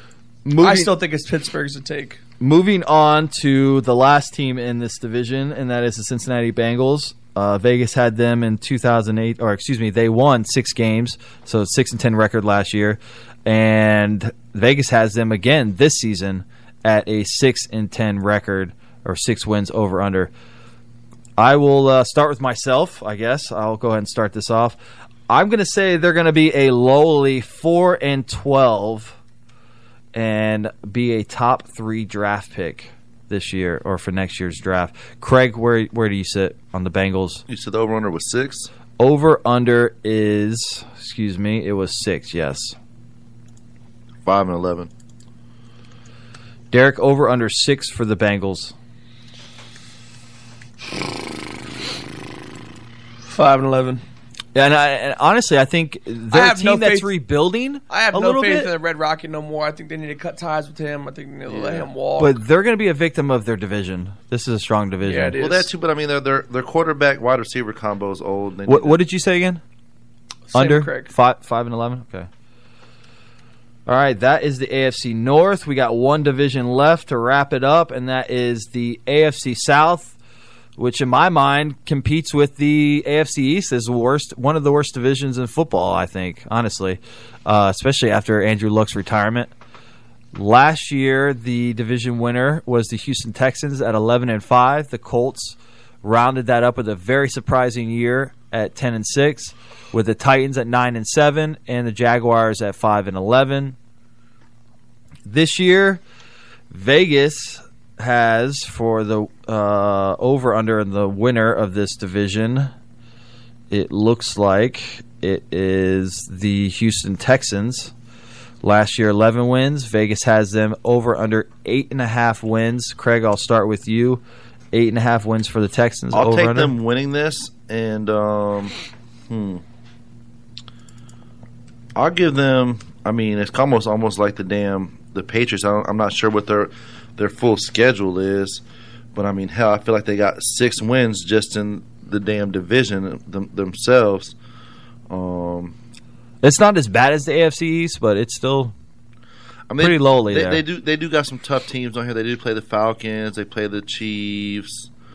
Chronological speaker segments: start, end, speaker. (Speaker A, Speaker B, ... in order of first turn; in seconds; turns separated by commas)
Speaker A: 0.4-0.9, Speaker B: 0.6-2.2, Speaker A: 2.4-20.3, Speaker A: 21.4-29.2, Speaker A: 30.1-37.4, Speaker C: 37.5-38.7, Speaker A: 39.0-42.8, Speaker C: 44.2-44.9, Speaker A: 46.7-48.7, Speaker B: 53.3-54.0, Speaker A: 54.5-58.7, Speaker B: 56.3-57.1, Speaker B: 57.9-62.3, Speaker C: 61.5-61.9, Speaker A: 62.2-65.4, Speaker B: 65.0-65.7, Speaker C: 65.4-69.0, Speaker A: 68.7-69.6, Speaker B: 70.5-71.1, Speaker A: 70.5-72.3, Speaker A: 73.8-80.1, Speaker A: 80.8-89.5, Speaker A: 90.3-103.8, Speaker A: 105.2-106.0, Speaker A: 106.7-112.7, Speaker A: 113.7-117.9, Speaker A: 118.6-126.7, Speaker C: 126.1-128.7, Speaker C: 129.3-129.6, Speaker C: 131.9-138.6, Speaker C: 139.1-144.3, Speaker C: 145.1-145.7, Speaker A: 146.4-148.7, Speaker C: 149.7-154.9, Speaker A: 149.8-150.6